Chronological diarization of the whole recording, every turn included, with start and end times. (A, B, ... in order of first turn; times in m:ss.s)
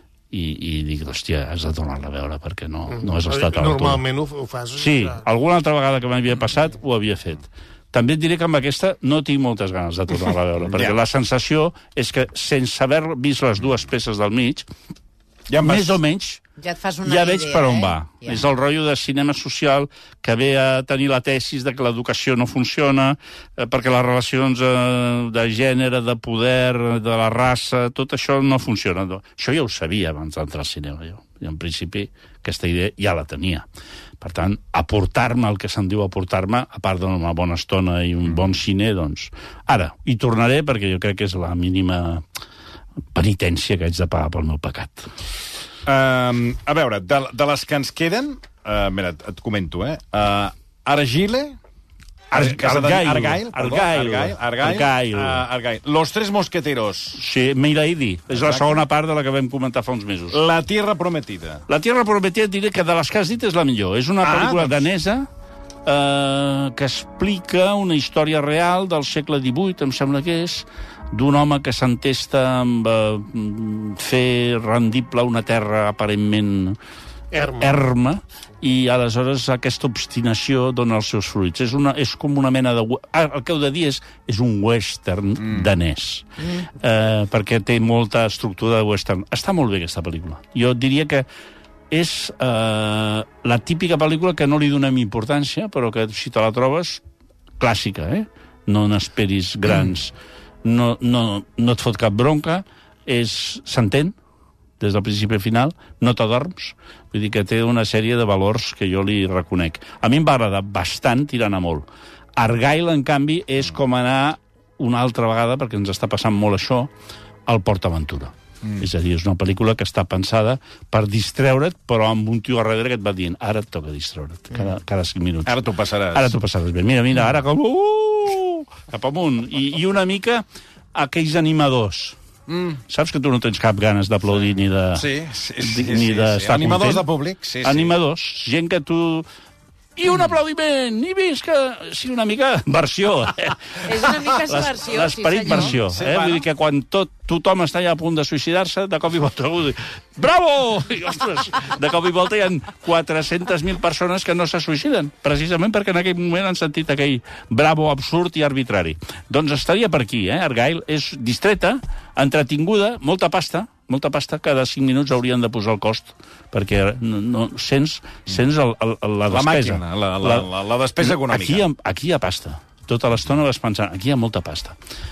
0:00.3-0:04.0 A
0:02.9-0:05.2 B
0:04.8-0:14.6 A
0:10.6-0:11.0 C
0:15.5-0:16.0 C
0:15.6-0:16.4 A
0:16.6-0:18.4 D
0:17.0-0:33.6 A
0:34.2-0:42.2 A
0:43.1-0:45.1 A
0:45.8-0:51.6 C
0:52.3-0:55.4 A
0:52.3-0:57.2 C
0:57.2-1:00.4 A
0:58.3-0:58.8 C
1:00.3-1:01.7 C
1:01.7-1:05.3 A
1:04.2-1:04.9 C
1:05.8-1:16.8 A
1:17.3-1:17.8 B
1:17.4-1:31.3 A
1:31.9-1:37.0 A
1:37.6-1:44.2 A
1:44.8-1:51.9 A
1:52.4-1:56.9 A
1:57.5-2:12.2 A
2:05.5-2:06.3 C
2:12.5-2:12.8 C
2:12.9-2:15.1 A
2:14.9-2:17.9 C
2:15.6-2:17.0 A
2:17.6-2:19.3 A
2:20.0-2:50.5 A
2:23.8-2:25.8 D
2:25.5-2:26.5 C
2:49.3-2:51.7 C
2:51.0-2:54.8 A